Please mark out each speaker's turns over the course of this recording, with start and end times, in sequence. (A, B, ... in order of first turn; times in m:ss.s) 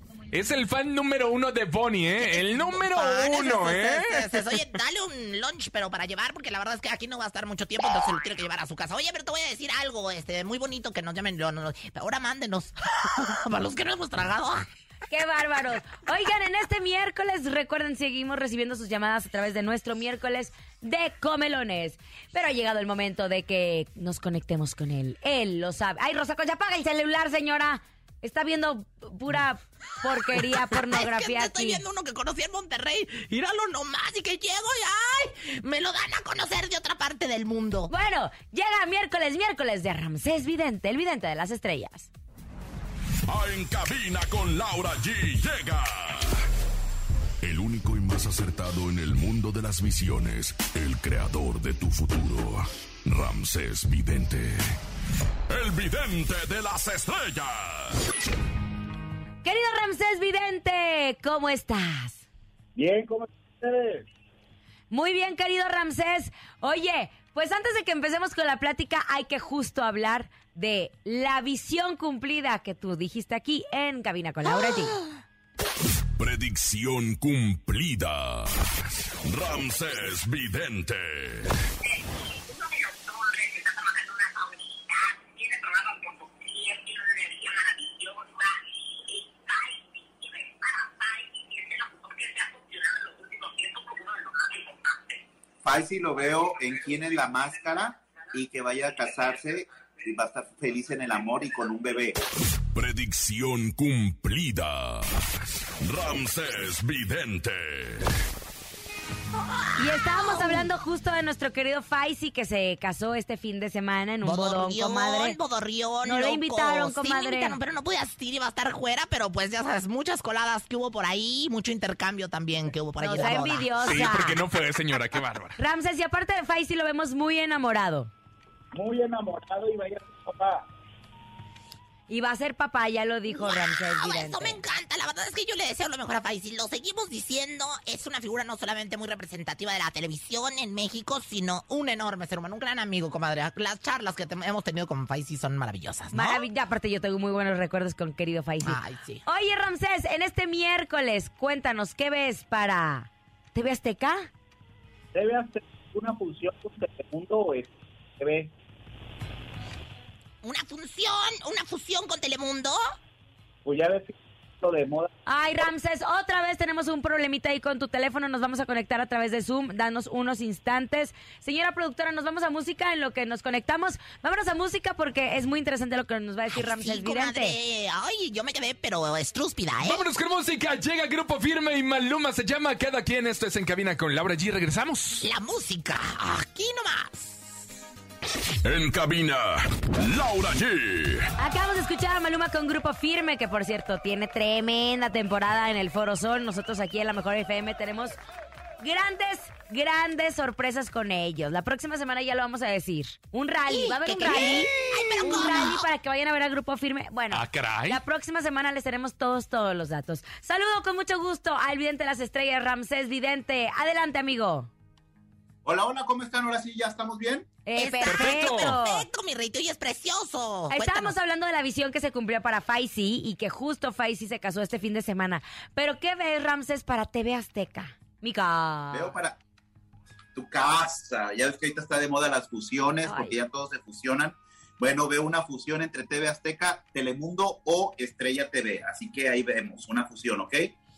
0:00.3-0:04.6 A
0:02.2-0:14.7 B
0:15.1-0:31.8 C
0:30.6-0:37.9 B
0:37.9-0:42.1 C
0:43.3-0:46.4 D
0:47.4-0:54.7 D
0:55.5-0:58.0 D
0:59.4-1:02.2 C
1:02.8-1:04.1 E
1:04.9-1:15.0 C
1:16.2-1:18.7 D
1:19.2-1:21.5 D
1:35.6-1:42.2 F
1:42.7-1:45.2 D
1:45.8-1:48.1 D
1:49.4-1:50.7 B
1:49.8-1:55.4 C
1:54.2-2:04.3 B
1:56.0-1:57.6 C
2:03.0-2:04.4 C
2:03.8-2:05.6 A
2:05.6-2:08.1 C
2:08.8-2:10.6 E
2:12.1-2:14.6 C
2:13.3-2:26.4 B
2:26.1-2:34.3 C
2:28.6-2:29.2 B
2:35.1-2:38.5 E
2:40.4-2:42.8 B
2:43.6-2:45.1 E
2:45.3-2:57.6 C
2:56.5-3:00.0 B
2:59.8-3:05.2 A
3:05.2-3:07.4 B
3:08.6-3:11.3 D
3:11.4-3:18.2 C
3:18.8-3:34.7 C
3:23.7-3:25.9 B
3:27.3-3:28.0 A
3:35.6-3:37.5 F
3:37.7-3:39.1 C
3:37.8-3:41.2 B
3:38.1-3:38.8 A
3:40.7-3:49.2 C
3:48.9-3:49.4 F
3:50.4-4:00.7 F
3:53.0-3:53.4 C